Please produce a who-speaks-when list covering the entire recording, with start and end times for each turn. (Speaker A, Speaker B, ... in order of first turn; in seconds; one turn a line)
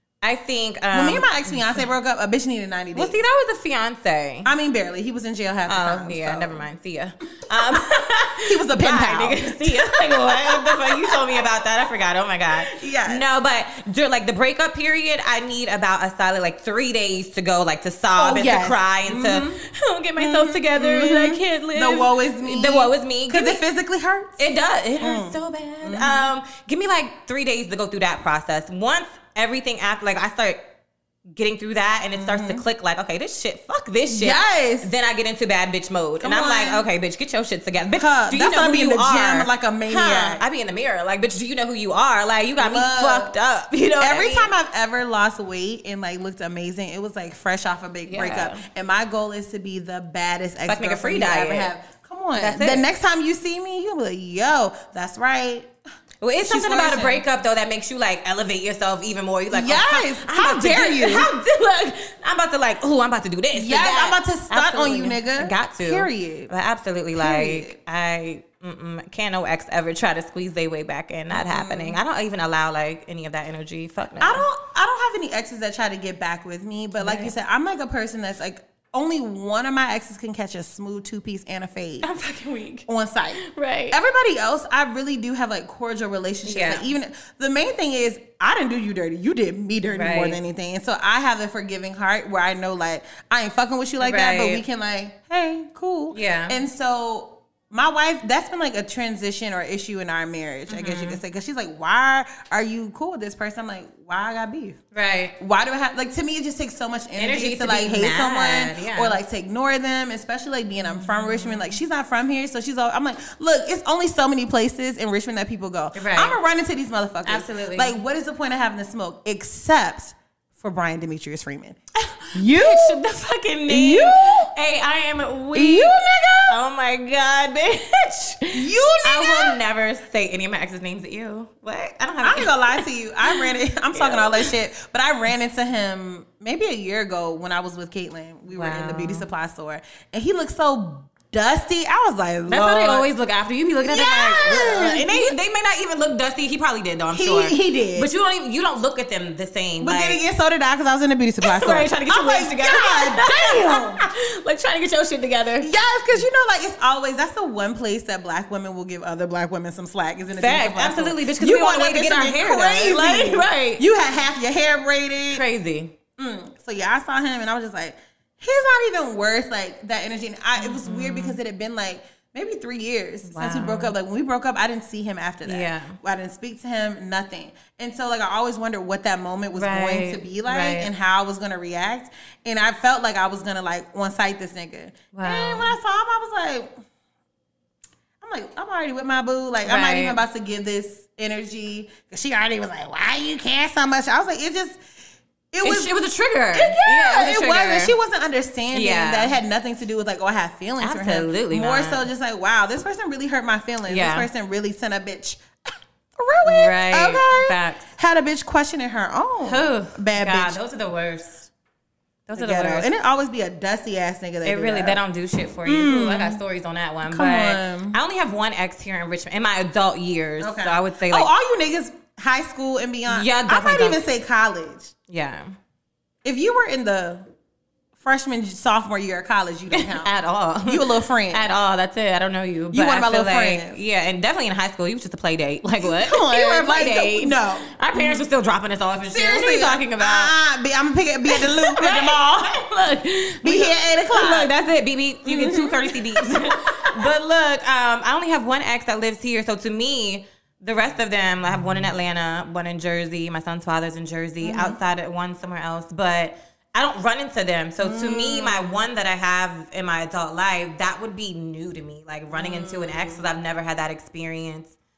Speaker A: 0.2-1.8
Speaker B: 0.9-3.2
Speaker A: 2.9-4.5
Speaker B: 4.5-6.7
Speaker A: 5.7-23.6
Speaker B: 8.3-11.4
Speaker B: 12.6-13.2
Speaker B: 18.2-19.6
Speaker B: 20.2-24.4
Speaker A: 24.4-30.7
Speaker B: 25.0-26.3
Speaker A: 31.3-44.5
Speaker B: 32.1-32.6
Speaker B: 34.1-34.9
Speaker B: 36.2-36.8
Speaker B: 37.9-40.4
Speaker B: 42.6-43.3
Speaker B: 44.0-55.7
Speaker A: 48.1-48.6
Speaker A: 50.7-51.7
Speaker A: 52.4-52.8
Speaker A: 56.2-74.5
Speaker B: 56.4-57.2
Speaker B: 59.5-61.3
Speaker B: 63.5-66.5
Speaker B: 67.2-67.8
Speaker B: 71.3-72.0
Speaker B: 74.2-82.1
Speaker A: 77.0-77.3
Speaker A: 82.0-84.0
Speaker B: 82.9-104.8
Speaker A: 86.5-86.8
Speaker A: 89.9-90.4
Speaker A: 94.0-94.6
Speaker A: 96.1-96.6
Speaker A: 100.7-101.2
Speaker A: 104.9-105.4
Speaker B: 105.4-121.8
Speaker A: 107.2-109.2
Speaker A: 110.9-111.7
Speaker A: 115.9-116.4
Speaker A: 117.3-118.0
Speaker A: 122.0-134.5
Speaker B: 122.3-123.0
Speaker B: 123.7-124.5
Speaker B: 125.5-126.6
Speaker B: 128.5-129.6
Speaker B: 132.2-143.1
Speaker A: 138.5-139.3
Speaker A: 142.5-150.2
Speaker B: 143.8-145.3
Speaker B: 147.1-148.1
Speaker B: 149.8-154.0
Speaker A: 151.4-155.7
Speaker B: 155.6-165.4
Speaker A: 160.4-163.8
Speaker A: 165.3-165.9
Speaker B: 166.2-186.8
Speaker A: 170.6-171.4
Speaker A: 173.3-173.9
Speaker A: 175.4-176.0
Speaker A: 179.6-180.9
Speaker A: 185.1-185.7
Speaker B: 188.2-194.8
Speaker A: 189.7-190.2
Speaker B: 195.5-195.9
Speaker A: 195.6-197.9
Speaker B: 196.5-205.4
Speaker A: 198.7-199.3
Speaker A: 200.8-202.0
Speaker A: 203.9-204.3
Speaker B: 206.2-210.6
Speaker A: 206.4-207.8
Speaker A: 209.4-211.5
Speaker A: 212.3-212.9
Speaker B: 212.3-215.0
Speaker A: 214.4-221.3
Speaker B: 215.7-216.4
Speaker B: 217.1-218.0
Speaker B: 220.4-224.9
Speaker A: 223.1-224.0
Speaker A: 225.1-225.5
Speaker B: 226.2-227.3
Speaker B: 228.0-230.1
Speaker A: 229.7-240.3
Speaker B: 230.7-231.5
Speaker B: 232.7-233.8
Speaker B: 235.8-238.2
Speaker B: 239.1-242.6
Speaker A: 241.3-264.8
Speaker B: 243.4-244.5
Speaker B: 245.2-247.1
Speaker B: 254.4-254.8
Speaker B: 257.8-258.8
Speaker B: 262.3-263.2